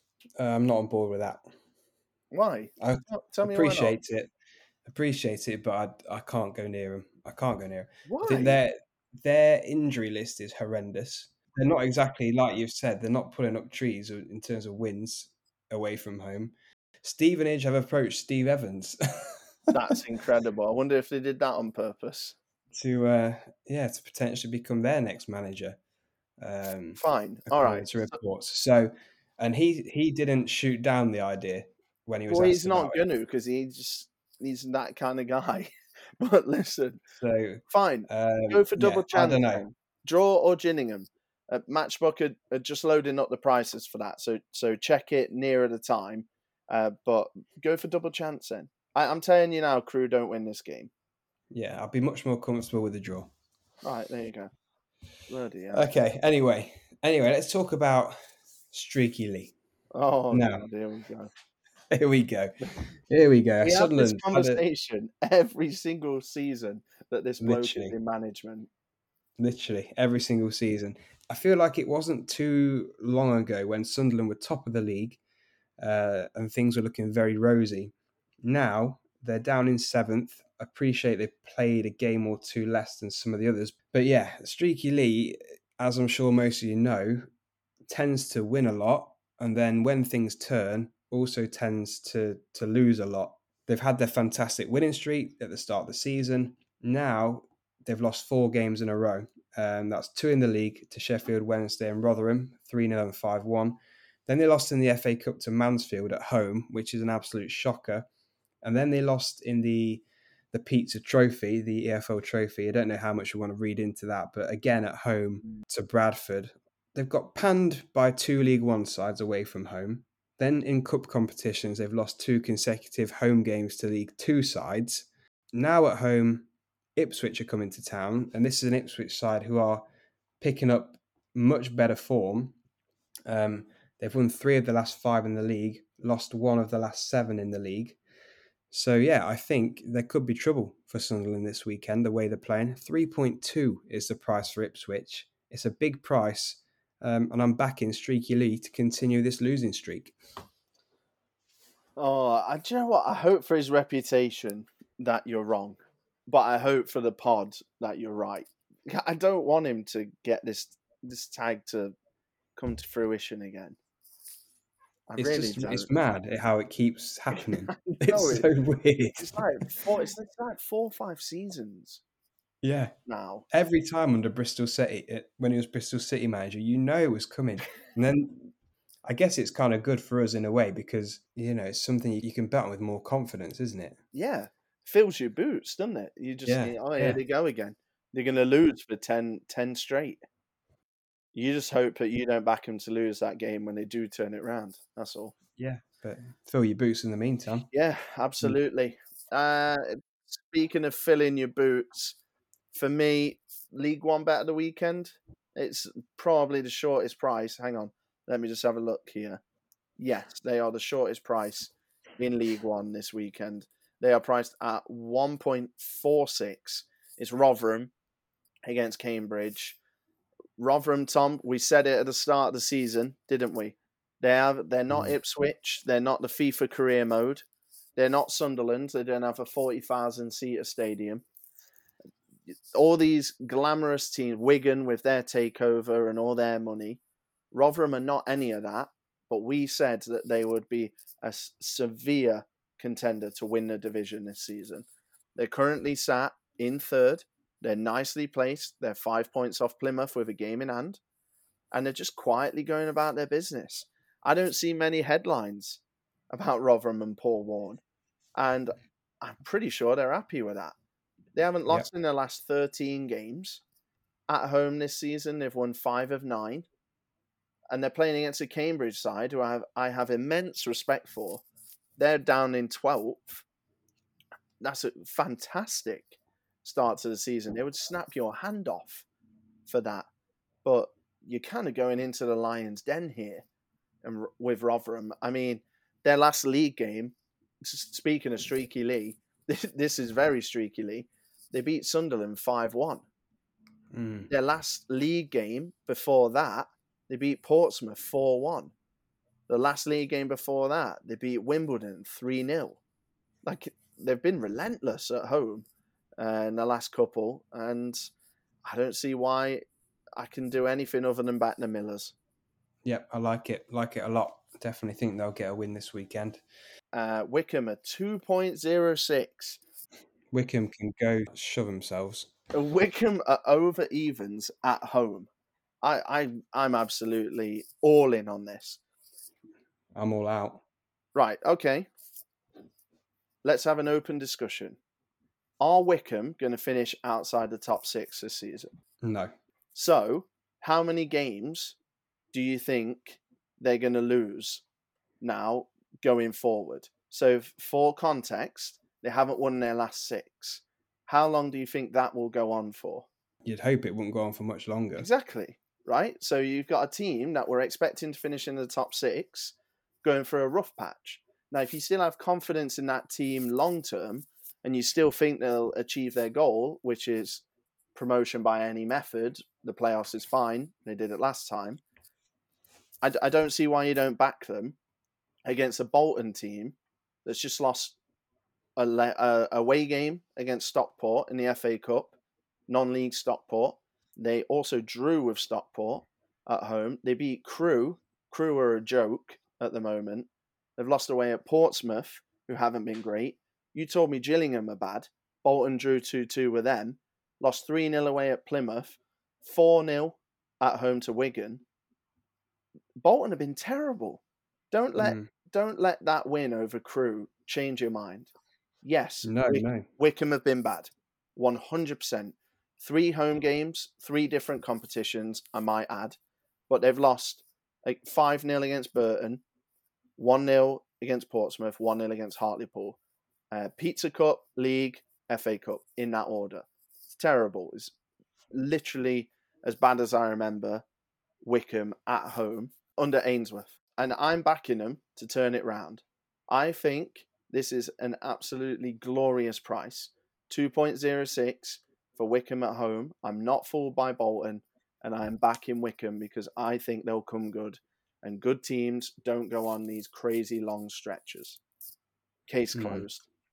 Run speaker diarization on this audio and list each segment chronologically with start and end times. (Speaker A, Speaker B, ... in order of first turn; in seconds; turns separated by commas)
Speaker A: 0.4-1.4, Speaker B: 2.3-4.0, Speaker A: 2.8-4.3, Speaker A: 4.8-19.9, Speaker B: 8.1-8.6, Speaker B: 19.7-22.4, Speaker A: 22.7-25.8, Speaker A: 26.4-33.0, Speaker B: 27.0-28.1, Speaker B: 32.3-37.0, Speaker A: 37.2-39.6, Speaker B: 37.7-50.9, Speaker A: 51.5-53.3, Speaker B: 53.8-54.5, Speaker B: 55.3-55.9, Speaker A: 55.7-58.1, Speaker A: 58.7-59.5, Speaker B: 59.9-61.3, Speaker A: 60.3-60.6, Speaker A: 61.9-64.6, Speaker B: 63.6-68.7, Speaker A: 67.4-67.9, Speaker A: 69.4-75.2, Speaker A: 75.8-87.2, Speaker A: 87.9-108.1, Speaker A: 108.6-129.8, Speaker A: 130.4-132.5, Speaker A: 133.3-138.0, Speaker A: 138.7-150.2, Speaker B: 151.9-161.9, Speaker B: 162.6-163.8, Speaker B: 165.1-165.9, Speaker A: 165.2-169.4, Speaker B: 167.7-168.5, Speaker B: 169.2-172.0, Speaker A: 172.6-172.9, Speaker B: 173.1-173.4, Speaker A: 173.5-178.5, Speaker A: 179.1-184.0, Speaker B: 184.1-190.2, Speaker A: 186.4-187.2, Speaker B: 191.3-195.3, Speaker A: 195.6-197.7, Speaker B: 197.7-202.2, Speaker B: 202.7-209.4, Speaker B: 210.0-217.9, Speaker B: 218.7-219.8, Speaker B: 220.6-227.4, Speaker B: 227.9-231.2, Speaker B: 232.5-237.0, Speaker B: 237.5-251.0, Speaker B: 251.7-257.8, Speaker B: 258.4-260.7, Speaker B: 261.3-263.6, Speaker B: 264.3-266.7, Speaker B: 267.7-271.4, Speaker B: 272.0-273.4, Speaker B: 274.6-279.1, Speaker B: 279.7-280.1, Speaker B: 280.6-283.4, Speaker B: 284.0-293.0, Speaker A: 293.9-294.3, Speaker B: 294.3-298.7, Speaker B: 299.5-302.8, Speaker B: 303.4-305.6, Speaker B: 306.2-308.1, Speaker B: 308.6-309.6, Speaker B: 310.2-312.1, Speaker A: 312.8-316.4, Speaker B: 316.9-319.6, Speaker A: 320.3-322.3, Speaker B: 322.5-325.3, Speaker B: 325.8-328.8, Speaker A: 329.9-330.6, Speaker B: 331.1-331.9, Speaker B: 333.4-334.8, Speaker B: 335.6-338.7, Speaker A: 339.0-339.3, Speaker B: 339.7-341.8, Speaker B: 342.3-344.6, Speaker B: 345.2-353.1, Speaker A: 353.4-355.1, Speaker B: 355.0-367.4, Speaker B: 367.9-371.8, Speaker B: 373.0-374.8, Speaker B: 375.4-377.9, Speaker B: 378.8-382.1, Speaker B: 382.7-401.6, Speaker B: 403.0-408.3, Speaker A: 405.0-405.3, Speaker B: 408.8-416.2, Speaker A: 409.2-409.9, Speaker B: 416.7-419.4, Speaker B: 420.2-423.0, Speaker B: 423.5-427.9, Speaker B: 428.5-430.8, Speaker B: 431.4-451.6, Speaker B: 452.5-453.2, Speaker A: 452.7-453.1